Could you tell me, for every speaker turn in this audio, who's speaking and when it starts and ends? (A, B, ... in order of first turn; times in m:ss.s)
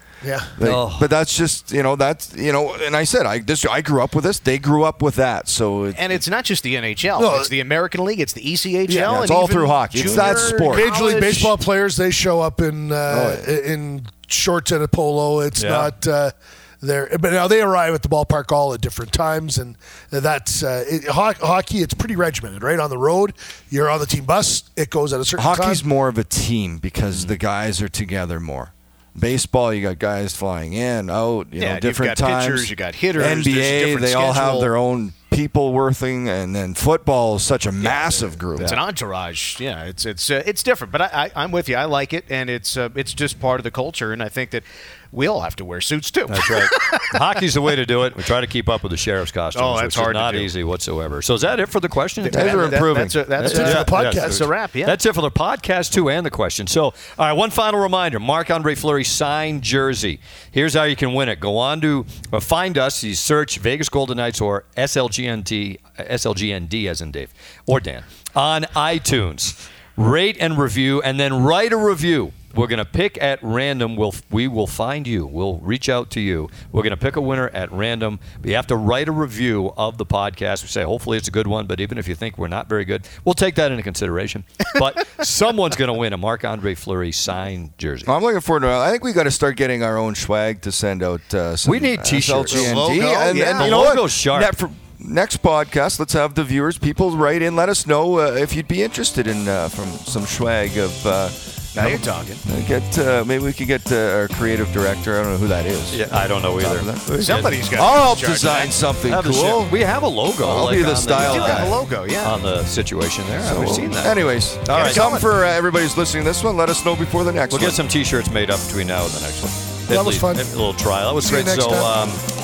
0:00.2-0:00.5 A
0:00.6-0:06.2 B
0:00.6-0:01.1 C
0:05.9-0:11.5 D
0:07.2-0:07.5 A
0:08.9-0:09.3 A
0:09.0-0:10.9 B
0:09.9-0:25.8 A
0:13.1-0:13.5 B
0:15.6-0:15.9 C
0:25.4-0:38.8 B
0:31.6-0:34.7 D
0:37.8-0:47.2 D
0:46.3-1:28.1 C
0:49.6-0:50.5 D
0:52.2-0:55.0 D
0:52.3-0:53.1 B
0:53.4-0:54.5 A
1:28.0-1:49.8 B
1:31.6-1:34.5 C
1:32.5-1:33.8 D
1:41.7-1:42.4 D
1:45.9-1:47.5 C
1:47.2-1:48.8 D
1:49.1-1:55.1 C
1:50.4-1:51.8 B
1:51.2-1:52.3 D
1:53.4-1:57.8 B
1:54.7-1:55.3 D
1:57.5-2:02.2 C
1:59.9-2:00.5 A
2:01.2-2:01.9 A